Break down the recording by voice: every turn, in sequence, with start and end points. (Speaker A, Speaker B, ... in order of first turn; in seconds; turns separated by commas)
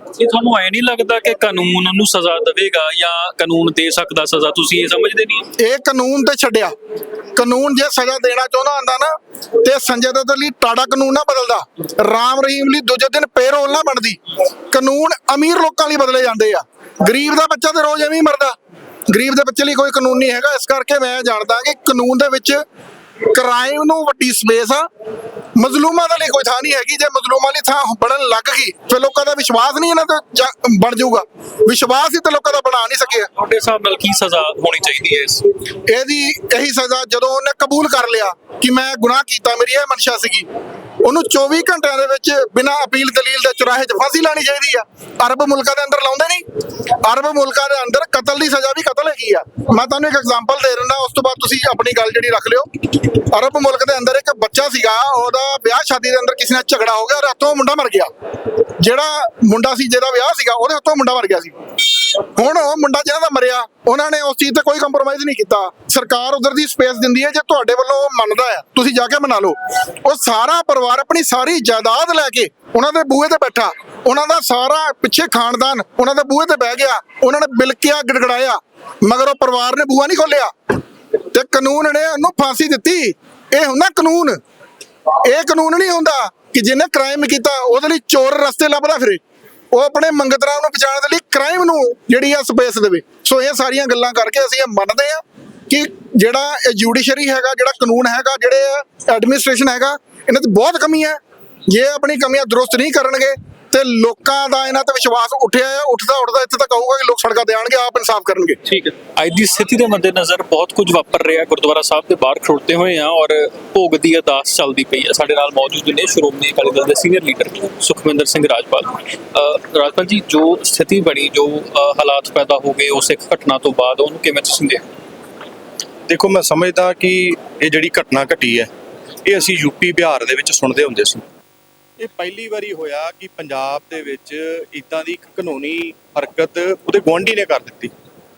Speaker A: 0.2-5.5, Speaker B: 5.6-6.7, Speaker B: 7.3-14.2, Speaker B: 14.7-18.6, Speaker B: 19.1-22.6, Speaker B: 23.3-24.9, Speaker B: 25.6-33.3, Speaker A: 33.3-35.5, Speaker B: 35.9-40.5, Speaker B: 41.0-46.4, Speaker B: 47.0-58.1, Speaker B: 58.8-61.5, Speaker B: 62.4-80.5, Speaker B: 81.3-84.4, Speaker B: 85.2-108.6, Speaker A: 108.7-124.8, Speaker C: 126.1-128.7, Speaker C: 129.2-131.2, Speaker C: 132.0-137.9